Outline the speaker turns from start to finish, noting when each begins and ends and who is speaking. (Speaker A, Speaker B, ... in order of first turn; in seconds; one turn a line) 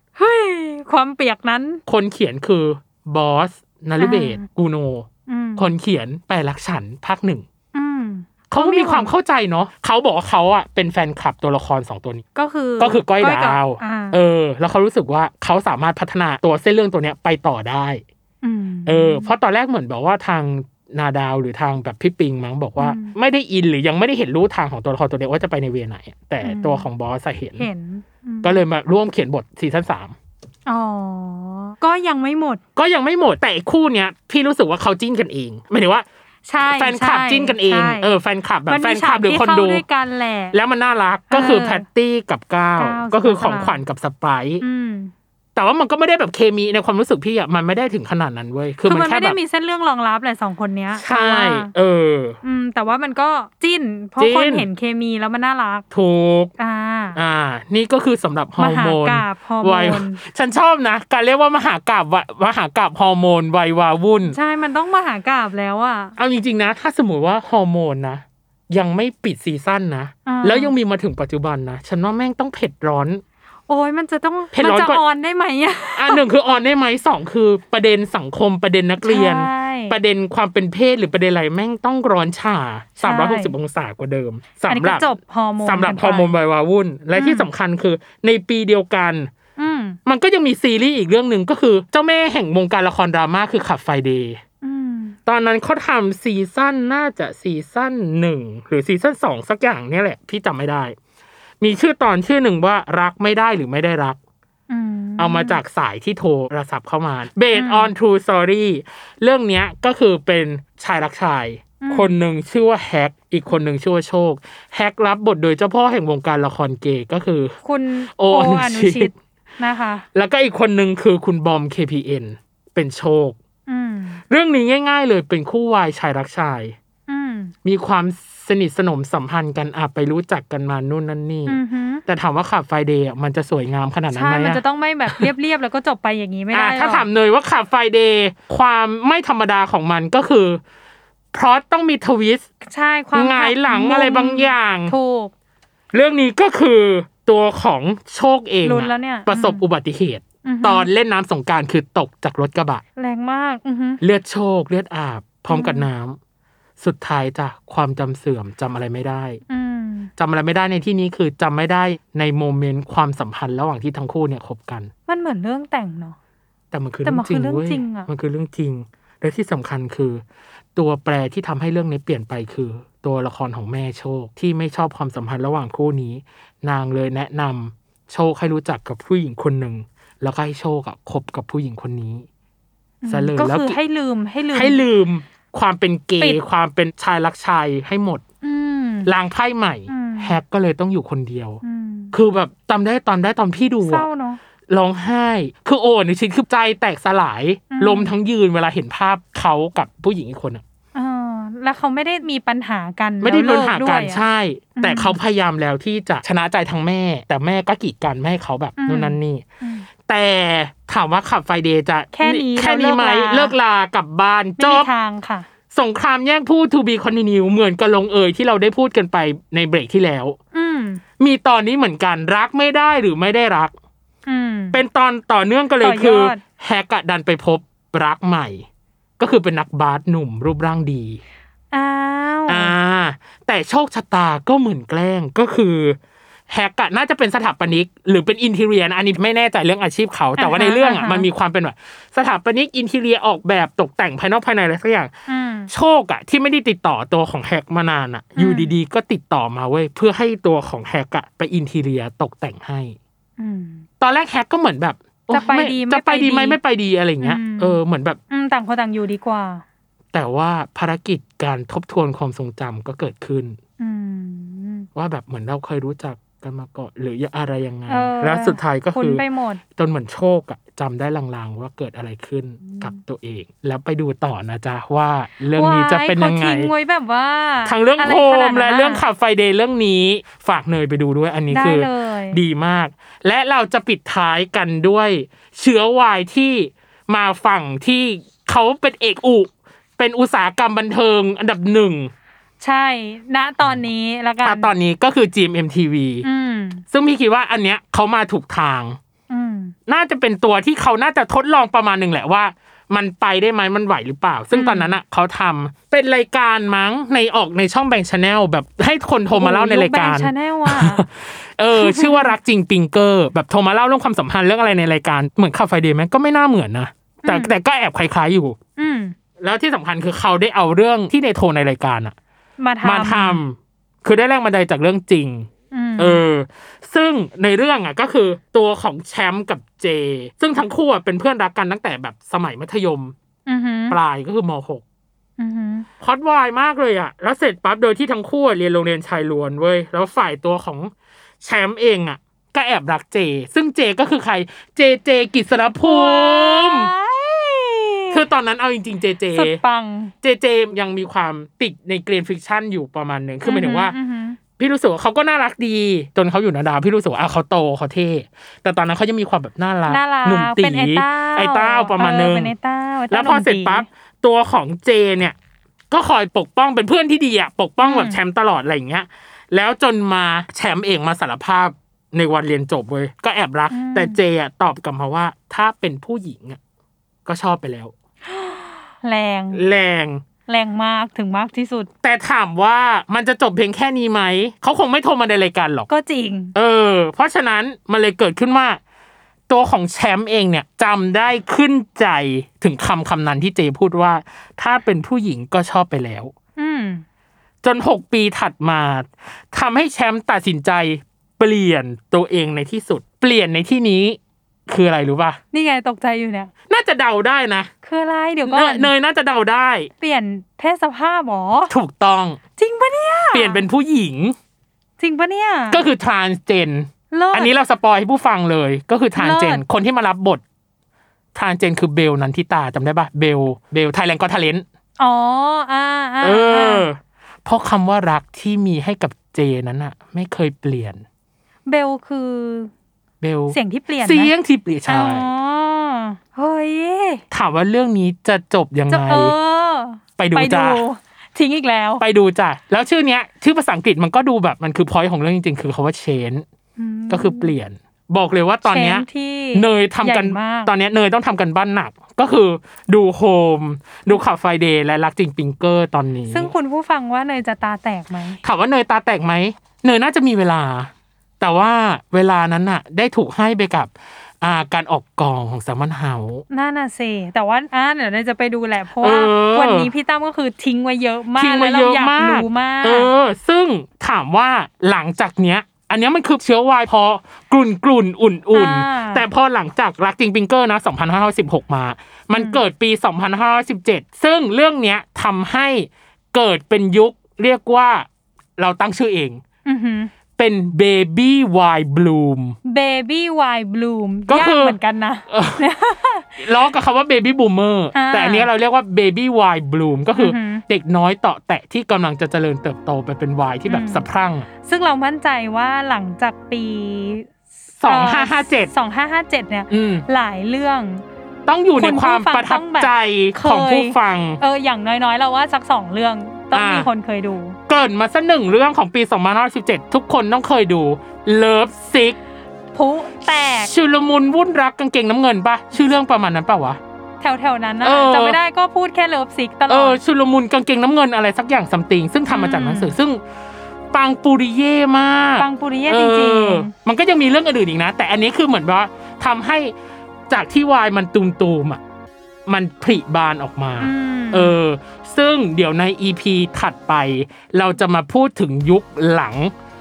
Speaker A: 0.2-1.8
Speaker B: 1.9-7.4
Speaker A: 4.0-4.4
Speaker A: 5.3-5.7
Speaker A: 7.7-9.1
Speaker B: 8.5-12.2
Speaker A: 12.3-14.2
Speaker B: 12.8-18.0
Speaker A: 18.4-19.3
Speaker B: 18.9-27.7
Speaker A: 22.8-23.1
Speaker A: 26.4-26.9
Speaker A: 27.6-28.6
Speaker B: 28.4-30.1
Speaker A: 30.7-32.6
Speaker B: 32.8-36.0
Speaker A: 36.5-38.1
Speaker B: 36.6-39.8
Speaker A: 38.7-40.5
Speaker B: 40.5-44.6
Speaker A: 41.3-41.8
Speaker A: 42.8-43.8
Speaker A: 44.6-45.1
Speaker B: 45.5-49.4
Speaker A: 48.9-51.7
Speaker B: 51.0-52.4
Speaker A: 52.4-55.8
Speaker B: 54.2-54.6
Speaker B: 55.9-56.5
Speaker A: 56.6-57.2
Speaker B: 57.1-64.3
Speaker A: 58.6-60.2
Speaker A: 64.3-66.1
Speaker B: 66.2-73.2
Speaker A: 70.2-70.7
Speaker A: 73.7-76.2
Speaker B: 74.5-75.0
Speaker B: 76.0-85.1
Speaker A: 79.0-80.0
Speaker A: 83.0-83.5
Speaker A: 84.7-86.3
Speaker B: 85.6-89.3
Speaker A: 87.2-87.5
Speaker A: 89.6-90.0
Speaker B: 90.0-94.4
Speaker A: 94.6-95.2
Speaker B: 95.3-101.0
Speaker B: 101.6-104.2
Speaker A: 104.7-105.6
Speaker B: 105.2-117.6
Speaker A: 107.5-107.9
Speaker A: 111.8-112.1
Speaker A: 117.6-120.0
Speaker B: 118.2-119.1
Speaker B: 120.1-123.4
Speaker A: 123.7-124.2
Speaker B: 124.3-126.8
Speaker A: 127.1-127.5
Speaker B: 127.6-135.3
Speaker A: 131.5-132.0
Speaker A: 134.1-137.0
Speaker B: 136.5-140.6
Speaker B: 141.3-142.5
Speaker A: 142.7-145.3
Speaker B: 143.1-144.9
Speaker B: 145.9-152.8
Speaker A: 148.6-149.6
Speaker A: 150.4-150.9
Speaker A: 153.0-154.0
Speaker B: 154.0-156.2
Speaker A: 155.5-155.8
Speaker B: 156.8-159.4
Speaker A: 159.5-160.1
Speaker B: 160.2-164.9
Speaker A: 165.1-166.2
Speaker B: 166.7-170.2
Speaker A: 167.0-168.1
Speaker B: 170.8-182.3
Speaker A: 183.0-184.8
Speaker B: 183.1-183.8
Speaker B: 184.5-188.2
Speaker A: 188.4-189.1
Speaker B: 189.0-191.6
Speaker A: 189.9-190.3
Speaker A: 191.6-192.1
Speaker B: 192.1-194.1
Speaker A: 193.8-194.4
Speaker B: 194.7-200.6
Speaker A: 197.7-198.1
Speaker A: 200.9-204.2
Speaker B: 203.2-209.4
Speaker A: 204.8-205.2
Speaker A: 208.8-209.9
Speaker B: 210.1-214.9
Speaker A: 212.1-213.5
Speaker A: 214.6-215.5
Speaker B: 215.7-220.3
Speaker A: 220.5-221.0
Speaker B: 221.2-223.7
Speaker A: 224.3-224.8
Speaker B: 224.7-228.7
Speaker A: 225.8-226.4
Speaker B: 229.2-231.2
Speaker A: 231.7-232.7
Speaker B: 232.5-236.0
Speaker B: 236.5-245.1
Speaker A: 240.4-241.2
Speaker A: 245.3-245.7
Speaker B: 245.7-252.9
Speaker A: 248.4-248.7
Speaker A: 253.4-253.8
Speaker B: 254.0-258.2
Speaker A: 255.3-256.6
Speaker A: 257.2-257.8
Speaker A: 258.3-259.6
Speaker B: 260.1-263.6
Speaker A: 263.8-264.9
Speaker B: 264.9-276.7
Speaker A: 267.9-269.6
Speaker A: 272.6-273.0
Speaker A: 275.6-279.0
Speaker B: 277.6-292.1
Speaker A: 281.5-282.4
Speaker A: 292.6-294.7
Speaker B: 294.4-296.2
Speaker A: 296.2-296.8
Speaker B: 296.9-299.0
Speaker A: 299.3-299.7
Speaker B: 299.9-318.6
Speaker A: 304.5-304.9
Speaker A: 309.3-311.0
Speaker A: 311.7-312.4
Speaker A: 317.2-317.5
Speaker A: 318.8-319.1
Speaker B: 319.4-322.1
Speaker A: 322.6-323.4
Speaker B: 322.8-333.1
Speaker A: 325.7-326.2
Speaker A: 333.5-334.0
Speaker B: 333.9-334.8
Speaker A: 335.4-335.9
Speaker B: 336.0-340.9
Speaker B: 341.4-346.9
Speaker A: 345.8-348.2
Speaker B: 348.1-349.6
Speaker A: 349.3-350.1
Speaker B: 350.2-353.9
Speaker A: 353.4-354.4
Speaker B: 354.6-362.5
Speaker A: 359.9-363.9
Speaker B: 363.1-365.4
Speaker B: 365.9-376.6
Speaker A: 367.8-368.2
Speaker A: 373.7-374.2
Speaker B: 377.2-377.9
Speaker A: 378.3-379.6
Speaker B: 379.5-380.2
Speaker A: 380.5-381.9
Speaker B: 382.0-385.9
Speaker A: 385.9-386.5
Speaker B: 386.5-388.8
Speaker B: 389.5-396.3
Speaker A: 396.6-397.0
Speaker B: 397.6-405.4
Speaker A: 405.5-406.5
Speaker B: 406.7-407.7
Speaker A: 407.8-408.9
Speaker B: 408.5-409.9
Speaker A: 410.0-411.7
Speaker B: 411.7-412.4
Speaker A: 412.6-413.6
Speaker B: 413.3-414.4
Speaker A: 415.0-415.8
Speaker B: 415.7-420.4
Speaker A: 417.1-417.5
Speaker A: 419.2-419.6
Speaker B: 421.3-424.6
Speaker A: 425.0-426.9
Speaker B: 426.2-431.0
Speaker A: 431.6-432.7
Speaker B: 433.2-435.3
Speaker A: 433.5-434.3
Speaker A: 434.9-437.2
Speaker B: 437.3-439.3
Speaker A: 438.9-442.0
Speaker B: 440.2-440.8
Speaker B: 442.0-446.4
Speaker A: 446.8-447.5
Speaker B: 447.1-456.5
Speaker A: 448.6-450.7
Speaker A: 456.3-458.4
Speaker B: 458.4-466.4
Speaker A: 466.5-473.1
Speaker B: 469.0-469.9
Speaker B: 471.4-488.1
Speaker A: 478.5-479.2
Speaker A: 482.3-482.6
Speaker B: 488.6-489.4
Speaker A: 489.6-490.1
Speaker B: 490.4-492.6
Speaker A: 492.6-496.4
Speaker B: 494.3-494.8
Speaker B: 495.3-495.6
Speaker B: 496.4-504.5
Speaker A: 497.9-498.5
Speaker A: 500.1-500.6
Speaker A: 503.7-504.0
Speaker A: 504.6-507.3
Speaker B: 507.8-508.7
Speaker A: 507.8-511.0
Speaker B: 509.7-510.1
Speaker B: 511.5-514.4
Speaker A: 511.7-517.6
Speaker B: 516.5-516.9
Speaker B: 517.7-522.2
Speaker A: 522.7-523.7
Speaker B: 523.6-526.8
Speaker A: 527.2-530.0
Speaker B: 527.8-528.4
Speaker B: 529.7-533.2
Speaker A: 532.3-532.9
Speaker B: 533.9-539.7
Speaker A: 535.4-536.7
Speaker B: 540.3-541.8
Speaker B: 542.5-549.5
Speaker A: 543.8-544.6